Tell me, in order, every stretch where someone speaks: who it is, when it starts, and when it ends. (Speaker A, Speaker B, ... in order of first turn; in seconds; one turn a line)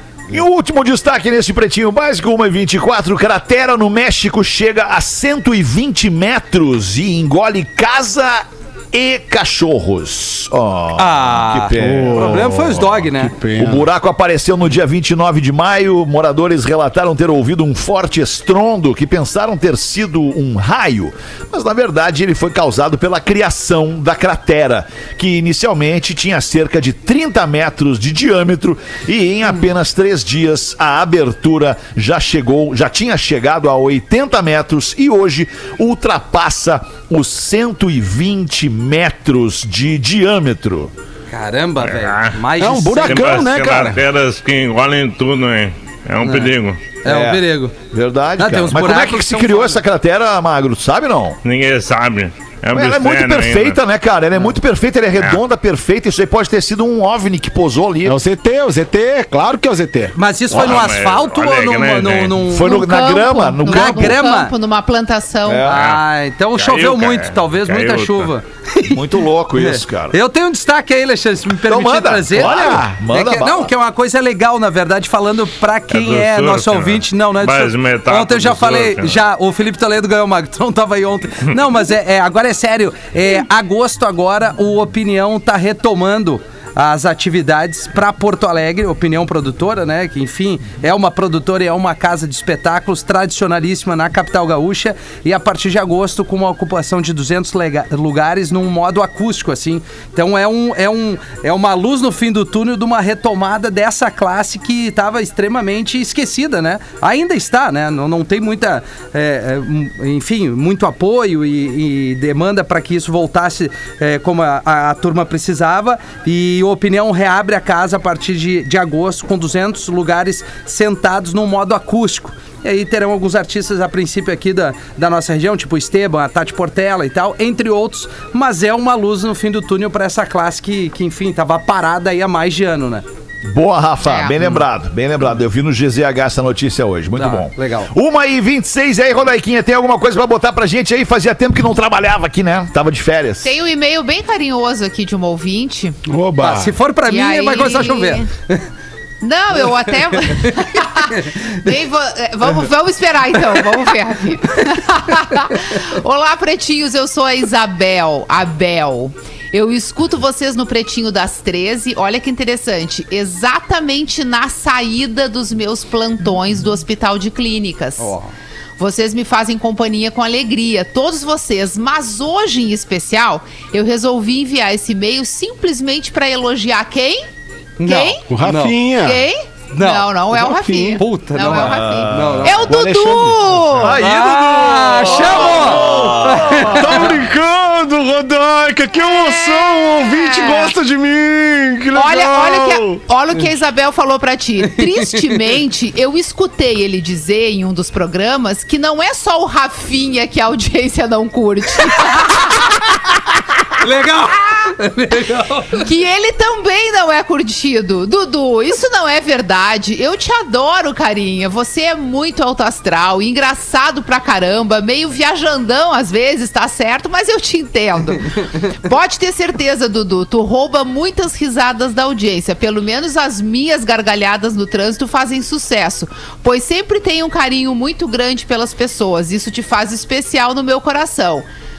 Speaker A: 0.3-40.9
Speaker B: 10.9-13.3
Speaker C: 11.8-12.6
Speaker C: 13.2-13.9
Speaker B: 41.3-43.4
Speaker D: 41.8-42.4
Speaker C: 42.6-44.0
Speaker D: 43.1-46.9
Speaker B: 46.2-46.5
Speaker B: 47.0-47.7
Speaker A: 47.0-51.4
Speaker B: 48.4-49.8
Speaker D: 51.4-53.8
Speaker A: 52.7-58.2
Speaker C: 58.0-60.1
Speaker B: 60.1-62.8
Speaker A: 60.5-60.9
Speaker D: 60.5-62.4
Speaker A: 62.4-64.2
Speaker E: 62.6-65.7
Speaker B: 63.6-64.5
Speaker A: 65.4-65.8
Speaker B: 65.7-69.0
Speaker D: 65.7-66.0
Speaker D: 66.5-68.3
Speaker A: 68.8-70.2
Speaker B: 69.5-133.0
Speaker A: 71.5-73.7
Speaker C: 72.4-73.0
Speaker D: 75.9-79.2
Speaker A: 133.5-143.5
Speaker E: 134.0-134.4
Speaker B: 137.2-137.9
Speaker E: 143.4-146.0
Speaker C: 146.1-146.8
Speaker B: 146.4-148.6
Speaker E: 147.1-148.3
Speaker E: 149.2-168.1
Speaker B: 150.4-151.5
Speaker B: 168.0-168.3
Speaker E: 168.8-177.3
Speaker B: 177.8-178.8
Speaker E: 177.8-178.3
Speaker C: 178.3-179.2
Speaker E: 179.0-184.0
Speaker B: 179.7-182.6
Speaker C: 180.4-181.0
Speaker A: 181.4-182.8
Speaker C: 182.7-183.4
Speaker A: 183.7-187.2
Speaker B: 184.0-187.1
Speaker E: 185.3-185.9
Speaker C: 186.6-193.0
Speaker E: 189.0-190.7
Speaker E: 191.9-203.4
Speaker B: 194.8-195.3
Speaker B: 203.8-205.8
Speaker E: 205.8-231.4